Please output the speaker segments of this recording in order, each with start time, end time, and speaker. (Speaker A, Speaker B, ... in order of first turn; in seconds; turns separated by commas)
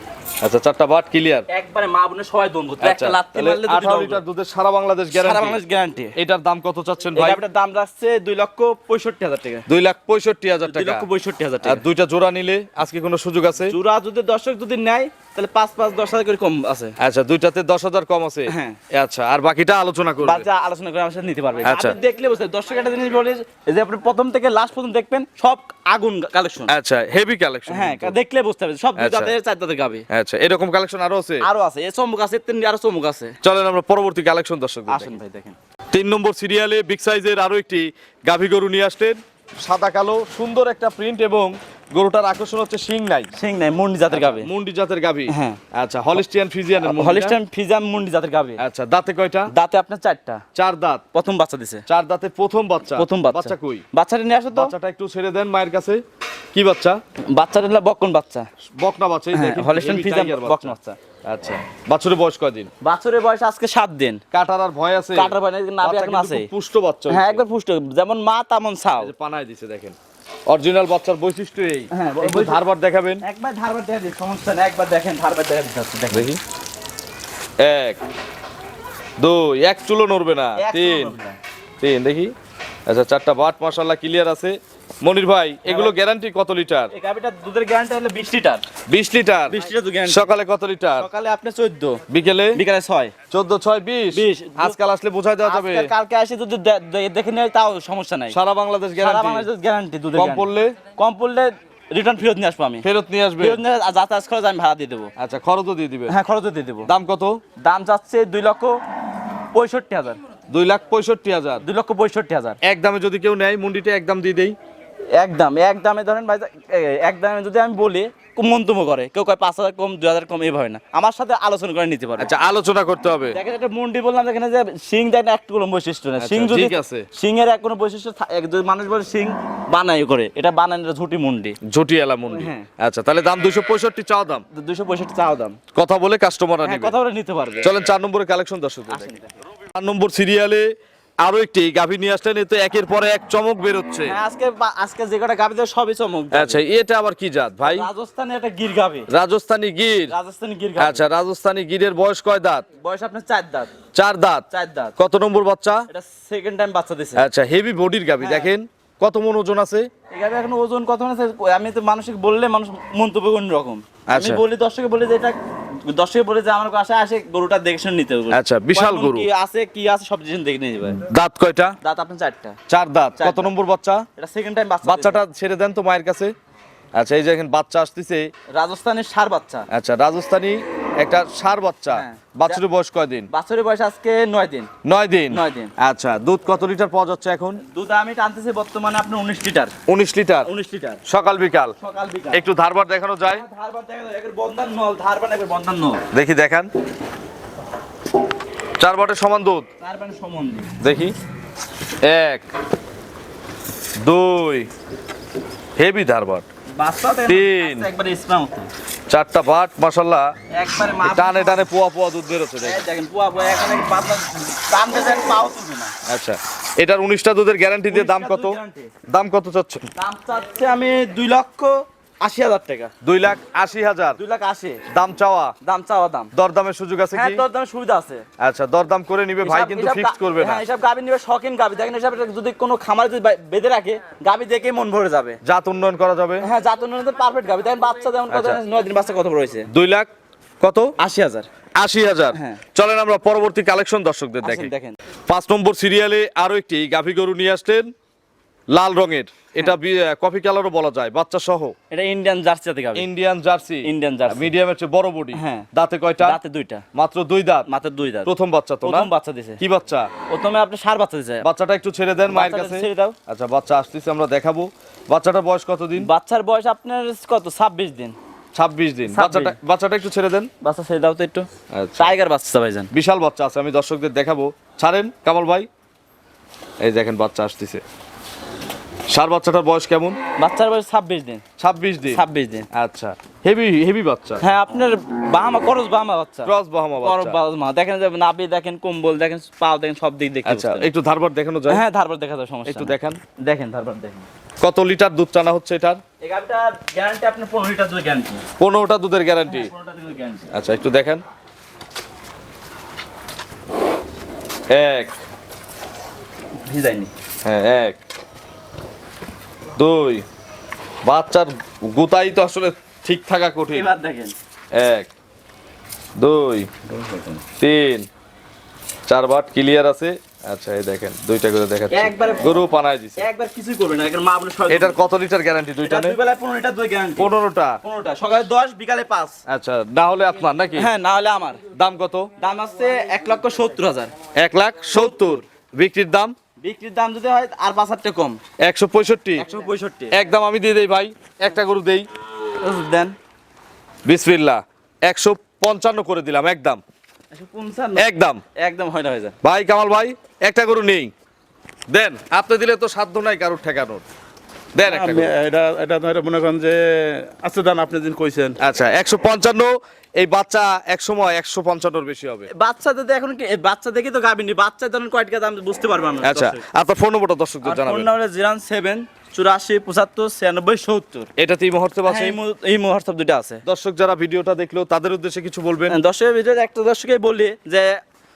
Speaker A: 0.4-1.5, Speaker B: 1.5-4.2, Speaker A: 2.8-5.6, Speaker B: 5.1-6.2, Speaker A: 6.2-7.4, Speaker B: 7.1-9.7, Speaker A: 9.7-11.1, Speaker B: 10.7-11.8, Speaker A: 11.6-13.7, Speaker B: 13.6-17.0, Speaker A: 17.0-20.5, Speaker B: 18.5-18.8, Speaker B: 20.2-26.7, Speaker A: 21.6-22.0, Speaker A: 26.7-28.2, Speaker B: 27.7-30.1, Speaker A: 29.0-29.3, Speaker A: 30.1-31.5, Speaker B: 31.4-33.4, Speaker A: 33.4-35.1, Speaker B: 34.9-35.6, Speaker A: 35.9-43.3, Speaker B: 43.4-44.5, Speaker A: 44.1-47.4, Speaker B: 45.3-45.6, Speaker B: 46.9-48.6, Speaker A: 48.6-49.5, Speaker B: 49.5-50.4, Speaker A: 50.5-51.1, Speaker B: 51.1-51.9, Speaker A: 51.9-53.8, Speaker B: 52.9-54.7, Speaker A: 54.5-56.0, Speaker A: 56.5-57.0, Speaker B: 57.2-58.5, Speaker A: 58.8-62.7, Speaker B: 59.3-61.0, Speaker B: 62.8-64.2, Speaker A: 64.3-67.4, Speaker B: 65.1-66.5, Speaker B: 67.1-69.1, Speaker A: 69.0-70.0, Speaker A: 70.5-73.2, Speaker B: 71.9-72.6, Speaker B: 73.2-76.3, Speaker A: 76.1-76.4, Speaker A: 77.6-78.0, Speaker A: 79.2-81.2, Speaker B: 80.6-81.4, Speaker A: 81.8-82.3, Speaker A: 82.9-86.9, Speaker B: 85.6-86.0, Speaker B: 86.9-88.7, Speaker A: 88.8-91.1, Speaker B: 89.5-90.3, Speaker B: 91.0-92.0, Speaker A: 92.1-92.6, Speaker B: 92.5-93.2, Speaker A: 93.2-95.9, Speaker B: 94.1-94.8, Speaker B: 95.5-98.4, Speaker A: 98.3-99.5, Speaker B: 99.0-102.9, Speaker A: 100.2-100.8, Speaker A: 102.8-103.6, Speaker B: 103.4-105.1, Speaker A: 105.2-106.2, Speaker B: 106.1-106.9, Speaker A: 106.9-107.4, Speaker B: 107.5-108.8, Speaker B: 109.5-110.2, Speaker A: 110.5-111.6, Speaker B: 111.6-112.6, Speaker A: 112.6-114.6, Speaker B: 115.2-122.3, Speaker A: 122.2-123.4, Speaker B: 123.3-131.6, Speaker A: 126.2-127.1, Speaker A: 131.6-134.4, Speaker B: 132.3-132.7, Speaker B: 134.5-135.6, Speaker A: 135.7-136.9, Speaker B: 136.7-137.7, Speaker A: 137.6-139.2, Speaker B: 138.9-139.3, Speaker A: 139.7-140.7, Speaker A: 141.2-144.2, Speaker B: 144.1-146.6, Speaker A: 146.3-147.9, Speaker B: 147.7-149.1, Speaker A: 149.1-150.1, Speaker B: 150.1-151.0, Speaker A: 150.8-152.7, Speaker B: 152.8-153.8, Speaker A: 153.9-154.4, Speaker B: 154.5-155.0, Speaker A: 155.0-155.9, Speaker B: 155.9-157.2, Speaker A: 157.2-159.9, Speaker B: 158.2-158.5, Speaker B: 160.1-171.1, Speaker A: 164.1-164.4, Speaker A: 168.3-169.3, Speaker A: 171.0-171.8, Speaker B: 171.8-172.6, Speaker A: 172.7-174.1, Speaker B: 173.2-173.5, Speaker B: 174.2-175.2, Speaker A: 174.8-176.3, Speaker A: 177.0-178.3, Speaker B: 178.5-179.7, Speaker A: 179.7-183.3, Speaker B: 181.9-182.3, Speaker B: 183.3-184.8, Speaker A: 184.8-187.6, Speaker B: 185.3-185.7, Speaker B: 187.6-189.8, Speaker A: 189.8-190.5, Speaker B: 190.4-191.0, Speaker A: 191.0-191.8, Speaker B: 191.8-192.4, Speaker A: 192.3-193.4, Speaker B: 193.3-196.0, Speaker A: 196.1-196.7, Speaker A: 198.8-199.7, Speaker B: 199.8-200.7, Speaker A: 200.8-201.2, Speaker A: 202.0-202.4, Speaker A: 204.0-204.7, Speaker A: 205.8-206.4, Speaker B: 206.7-208.7, Speaker A: 207.3-207.9, Speaker A: 209.1-210.3, Speaker B: 210.5-211.7, Speaker A: 211.0-212.9, Speaker B: 212.6-215.9, Speaker A: 216.1-219.8, Speaker B: 217.9-219.0, Speaker B: 220.0-222.9, Speaker A: 223.0-224.2, Speaker B: 224.2-224.9, Speaker A: 224.8-225.6, Speaker B: 225.6-226.3, Speaker A: 226.3-227.4, Speaker B: 227.1-228.3, Speaker A: 228.4-230.6, Speaker B: 229.4-235.4, Speaker A: 235.4-236.5, Speaker B: 236.4-239.7, Speaker A: 238.3-238.6, Speaker A: 239.7-240.1, Speaker A: 240.6-240.9, Speaker B: 241.0-241.5, Speaker A: 241.8-244.7, Speaker B: 242.3-242.7, Speaker B: 244.4-245.0, Speaker A: 245.3-247.9, Speaker A: 248.7-251.7, Speaker B: 251.9-253.1, Speaker A: 252.9-256.4, Speaker B: 253.8-254.4, Speaker B: 255.3-255.7, Speaker B: 256.2-256.9, Speaker A: 256.9-257.7, Speaker B: 257.7-258.3, Speaker A: 258.2-259.1, Speaker B: 258.8-259.6, Speaker A: 259.6-260.1, Speaker B: 260.3-261.4, Speaker A: 261.4-266.1, Speaker B: 262.3-263.2, Speaker B: 266.0-268.2, Speaker A: 268.6-270.5, Speaker B: 269.1-269.6, Speaker B: 270.6-272.9, Speaker A: 271.7-272.1, Speaker A: 272.9-275.7, Speaker A: 276.8-277.8, Speaker A: 279.1-280.2, Speaker B: 280.4-281.5, Speaker A: 281.6-284.4, Speaker B: 282.1-282.7, Speaker B: 284.4-286.5, Speaker A: 286.5-287.4, Speaker B: 287.0-290.9, Speaker A: 290.4-291.8, Speaker B: 291.7-294.3, Speaker A: 292.6-293.2, Speaker A: 294.6-296.0, Speaker B: 296.2-298.5, Speaker A: 298.6-299.7, Speaker B: 299.5-300.5, Speaker A: 300.5-301.2, Speaker A: 304.7-305.1, Speaker B: 306.6-307.1, Speaker A: 307.4-308.0, Speaker A: 309.8-310.2, Speaker A: 311.0-313.9, Speaker B: 313.7-314.4, Speaker A: 314.7-315.1, Speaker A: 316.2-316.8, Speaker B: 316.9-317.4, Speaker A: 317.5-318.1, Speaker A: 319.1-323.3, Speaker B: 321.9-322.5, Speaker B: 323.2-324.9, Speaker A: 324.7-326.2, Speaker B: 325.9-329.4, Speaker A: 327.2-327.8, Speaker A: 329.5-330.9, Speaker B: 330.8-331.7, Speaker A: 331.6-332.3, Speaker B: 332.4-334.2, Speaker A: 334.3-336.4, Speaker B: 334.9-335.3, Speaker B: 336.6-338.4, Speaker A: 338.6-339.5, Speaker B: 339.4-340.1, Speaker A: 340.1-342.1, Speaker B: 342.6-343.2, Speaker A: 344.1-346.8, Speaker B: 347.3-349.4, Speaker A: 348.0-348.4, Speaker A: 349.4-351.1, Speaker A: 351.9-354.0, Speaker A: 354.8-355.4, Speaker C: 354.9-358.6, Speaker B: 357.5-358.3, Speaker A: 358.6-362.5, Speaker B: 362.5-366.6, Speaker A: 366.2-368.1, Speaker B: 367.6-371.3, Speaker A: 371.4-372.4, Speaker B: 372.1-373.6, Speaker A: 373.6-376.0, Speaker B: 375.9-378.0